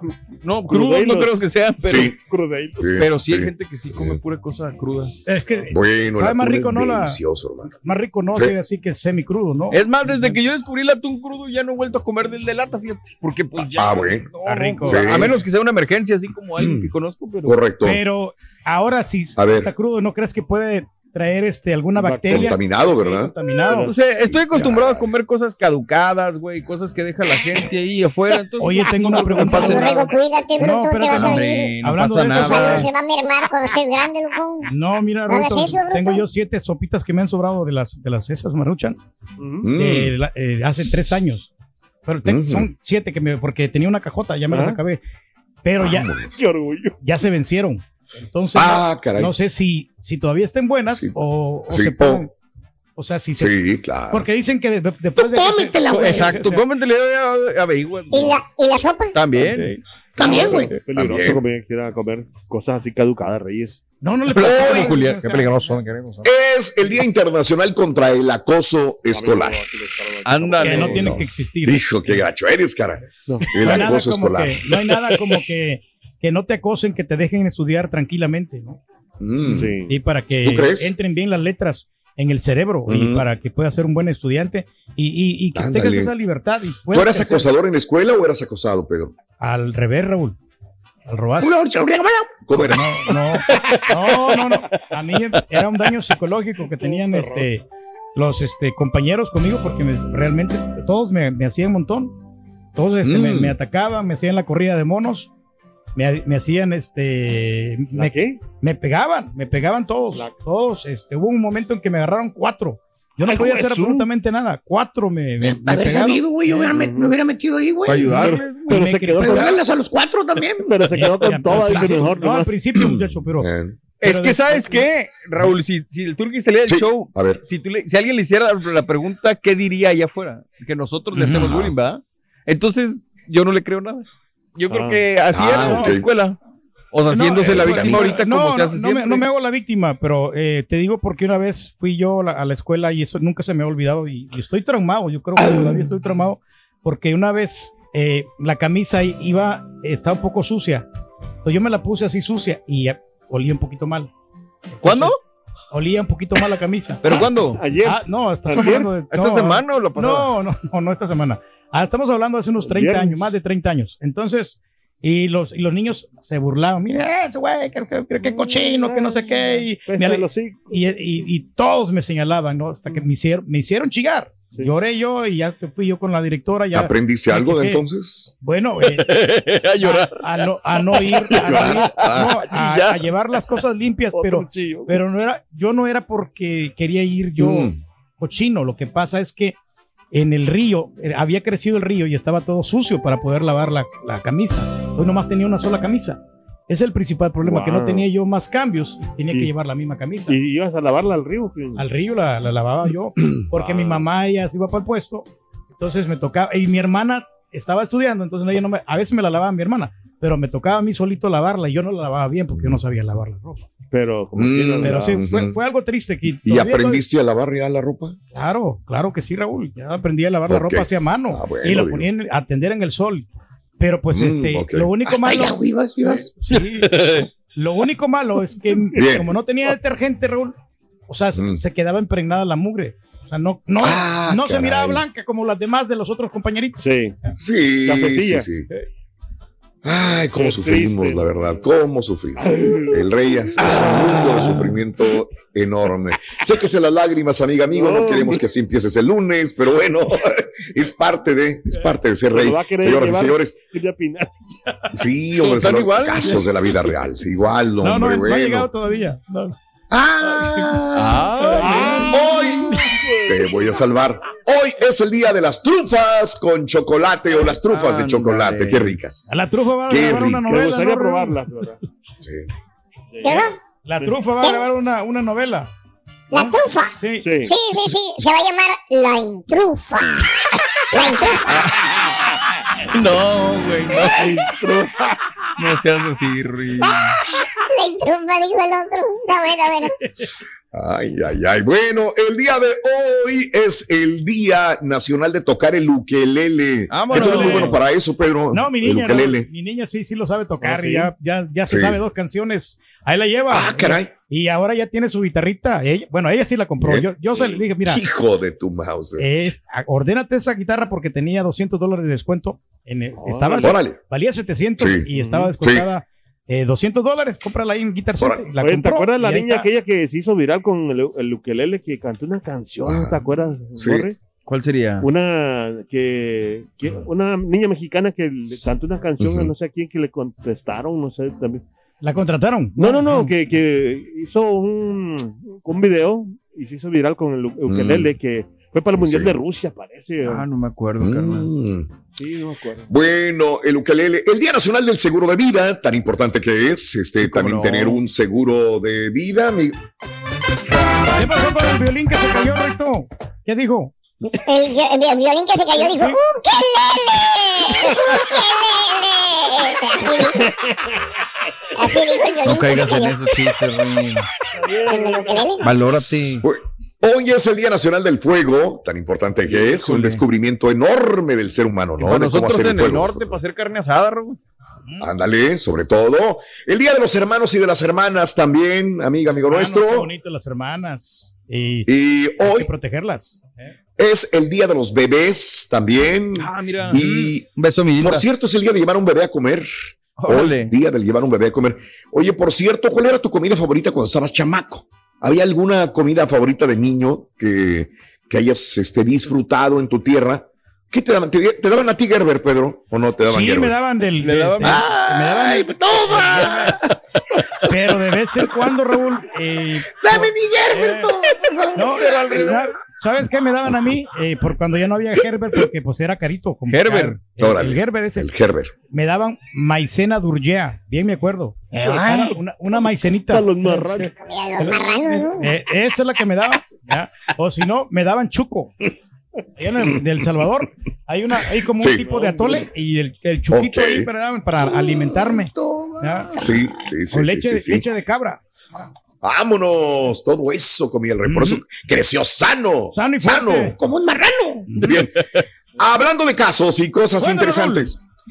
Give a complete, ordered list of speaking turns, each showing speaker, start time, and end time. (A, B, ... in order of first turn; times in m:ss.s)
0:00.4-0:02.2 A
0:00.6-0:01.5 B
0:01.9-0:02.2 C
0:02.3-0:02.9 B
0:02.8-0:04.2 C
0:03.0-0:05.1 A
0:05.3-0:10.4 D
0:05.7-0:07.7 C
0:09.7-0:17.6 A
0:13.6-0:14.3 C
0:14.4-0:15.2 D
0:14.8-0:15.4 C
0:16.6-0:16.9 C
0:17.4-0:18.0 C
0:17.8-0:23.9 D
0:19.4-0:19.7 C
0:22.0-0:22.5 B
0:22.3-0:23.3 C
0:23.8-0:30.0 A
0:24.2-0:25.2 C
0:28.6-0:32.9 D
0:29.2-0:31.7 E
0:31.1-0:32.9 A
0:32.3-0:34.7 E
0:34.7-0:39.0 D
0:35.3-0:36.2 E
0:39.4-0:39.7 B
0:39.6-0:40.1 C
0:39.7-0:41.5 D
0:42.0-0:45.0 D
0:42.2-0:42.7 C
0:44.5-0:44.8 B
0:45.6-0:46.1 D
0:45.8-0:46.3 C
0:46.4-0:46.9 B
0:47.0-0:52.3 D
0:48.5-0:49.3 C
0:51.7-0:52.2 C
0:53.0-0:56.6 D
0:53.4-0:54.3 C
0:55.2-0:56.4 F
0:55.9-0:58.4 A
0:58.1-0:59.1 E
0:59.1-0:59.8 A
0:59.4-0:59.7 B
1:00.2-1:00.7 F
1:00.2-1:01.4 C
1:00.2-1:03.8 B
1:00.5-1:00.8 A
1:04.0-1:05.8 D
1:04.3-1:06.2 A
1:04.4-1:05.0 C
1:06.2-1:09.6 C
1:09.1-1:11.2 B
1:10.2-1:11.2 A
1:10.6-1:11.8 D
1:11.0-1:14.8 C
1:13.3-1:13.7 B
1:13.5-1:18.8 D
1:19.2-1:19.8 C
1:19.5-1:19.9 B
1:19.9-1:27.5 D
1:20.4-1:20.9 C
1:22.8-1:23.2 C
1:25.5-1:26.1 C
1:26.9-1:29.1 C
1:29.4-1:30.4 D
1:31.1-1:31.5 D
1:31.4-1:32.4 F
1:32.4-1:33.0 C
1:32.5-1:37.6 D
1:36.8-1:37.5 B
1:38.2-1:42.2 D
1:42.8-1:45.3 D
1:43.0-1:43.6 C
1:46.0-1:56.2 D
1:47.9-1:48.4 B
1:53.2-1:54.1 B
1:55.4-1:58.2 F
1:56.5-1:57.1 B
1:57.8-1:58.8 A
1:58.1-1:59.7 B
1:58.7-1:59.5 D
1:59.2-2:01.0 F
2:00.5-2:02.6 B
2:00.9-2:03.5 D
2:01.6-2:02.0 C
2:02.7-2:03.8 C
2:04.0-2:16.4 A
2:04.0-2:04.8 D
2:06.7-2:07.4 C
2:11.2-2:11.7 C
2:14.7-2:15.0 B
2:15.3-2:16.1 C
2:15.6-2:15.9 D
2:16.9-2:19.2 A
2:17.1-2:30.8 D
2:17.3-2:18.2 C
2:31.4-2:34.1 D
2:34.8-2:35.2 D
2:34.8-2:35.2 A
2:35.7-2:37.2 D
2:37.0-2:37.6 A
2:37.2-2:38.9 B
2:37.8-2:57.8 D
2:39.0-2:40.3 A
2:42.6-2:43.4 B
2:49.8-2:50.8 B
2:56.7-2:58.3 C
2:58.4-2:59.2 D
2:58.9-3:03.0 A
2:59.8-3:09.6 D
3:01.3-3:02.4 C
3:04.1-3:05.0 B
3:07.4-3:07.8 C
3:10.1-3:20.4 D
3:17.4-3:17.9 B
3:20.3-3:21.8 B
3:21.8-3:25.3 D
3:23.5-3:24.1 B
3:25.8-3:33.6 D
3:32.5-3:32.8 C
3:33.9-3:35.2 B
3:34.3-3:35.6 C
3:34.8-3:37.0 D
3:36.4-3:38.2 C
3:38.3-3:43.3 D
3:40.5-3:42.1 C
3:43.8-3:50.6 D
3:44.1-3:46.2 C
3:45.1-3:46.2 F
3:46.8-3:47.3 A
3:48.9-3:49.2 B
3:49.0-3:49.3 C
3:51.1-3:56.8 D
3:51.4-3:51.6 C
3:53.8-3:55.0 C
3:56.8-3:57.1 B
3:57.4-3:58.7 C
3:57.8-3:58.5 B
3:59.8-4:13.6 C
4:00.3-4:01.6 B
4:02.4-4:03.0 B
4:07.7-4:08.4 B
4:12.3-4:14.3 B
4:14.9-4:18.7 C
4:15.4-4:16.7 A
4:17.8-4:19.6 D
4:19.9-4:21.2 C
4:20.3-4:20.7 D
4:20.9-4:22.1 A
4:21.5-4:23.6 B
4:21.6-4:22.1 D
4:22.1-4:29.3 C
4:27.7-4:29.0 A
4:29.3-4:31.4 D
4:29.9-4:30.7 C
4:30.5-4:31.8 B
4:32.2-4:32.5 C
4:33.1-4:33.4 B
4:33.2-4:33.6 E
4:33.8-4:35.7 D
4:34.4-4:34.7 E
4:36.3-4:40.4 E
4:36.3-4:37.2 D
4:37.2-4:37.5 B
4:40.9-4:41.8 E
4:41.5-4:42.1 A
4:42.9-4:44.3 A
4:44.2-4:45.1 B
4:45.6-4:47.1 A
4:46.8-4:49.9 E
4:50.7-4:59.5 C
4:56.9-4:57.8 A
4:57.1-4:57.7 D
4:57.2-4:57.6 B
4:58.5-5:08.0 D
5:00.6-5:01.1 B
5:01.7-5:02.0 C
5:03.5-5:04.1 C
5:06.8-5:09.5 C
5:09.2-5:19.7 D
5:13.2-5:13.8 B
5:13.6-5:14.0 C
5:14.8-5:15.1 C
5:15.1-5:15.5 B
5:15.6-5:15.9 C
5:18.2-5:18.5 C
5:18.6-5:24.2 B
5:22.8-5:23.2 C
5:23.8-5:24.1 C
5:24.4-5:25.1 A
5:25.0-5:31.6 B
5:29.2-5:29.5 C
5:32.0-5:32.9 D
5:32.8-5:40.4 B
5:32.9-5:33.3 A
5:37.6-5:38.1 C
5:38.9-5:39.4 C
5:40.2-5:41.5 A
5:41.0-5:41.9 C
5:42.2-5:42.9 B
5:42.9-5:49.8 C
5:47.2-5:48.0 A
5:51.1-5:53.9 D
5:54.4-6:00.5 E
5:55.8-5:56.2 D
6:01.8-6:03.1 E
6:02.4-6:04.3 A
6:04.6-6:05.5 B
6:04.8-6:05.7 E
6:05.6-6:06.4 A
6:06.4-6:13.4 C
6:09.6-6:10.2 A
6:12.0-6:14.4 A
6:15.0-6:20.1 C
6:19.5-6:21.9 D
6:21.9-6:22.7 C
6:22.4-6:23.5 D
6:24.0-6:29.7 C
6:26.4-6:28.2 A
6:30.2-6:30.7 A
6:30.3-6:43.7 C
6:43.2-6:46.7 D
6:44.2-6:44.9 A
6:44.6-6:45.7 C
6:45.6-6:46.7 F
6:46.2-6:46.8 A
6:47.6-6:51.1 D
6:50.0-6:51.5 C
6:50.3-6:51.1 F
6:51.7-6:58.3 D
6:56.7-6:57.2 A
6:57.4-6:58.7 C
6:58.9-7:04.1 D
7:01.8-7:02.3 B
7:03.3-7:04.1 B
7:04.1-7:05.6 E
7:05.4-7:08.7 D
7:09.6-7:16.4 D
7:11.8-7:12.1 C
7:12.0-7:12.7 B
7:13.5-7:14.1 C
7:16.3-7:17.8 C
7:17.1-7:18.4 D
7:19.2-7:23.8 C
7:21.2-7:21.6 D
7:22.9-7:23.7 D
7:23.8-7:24.7 F
7:24.8-7:25.2 C
7:25.8-7:28.0 C
7:27.2-7:27.9 D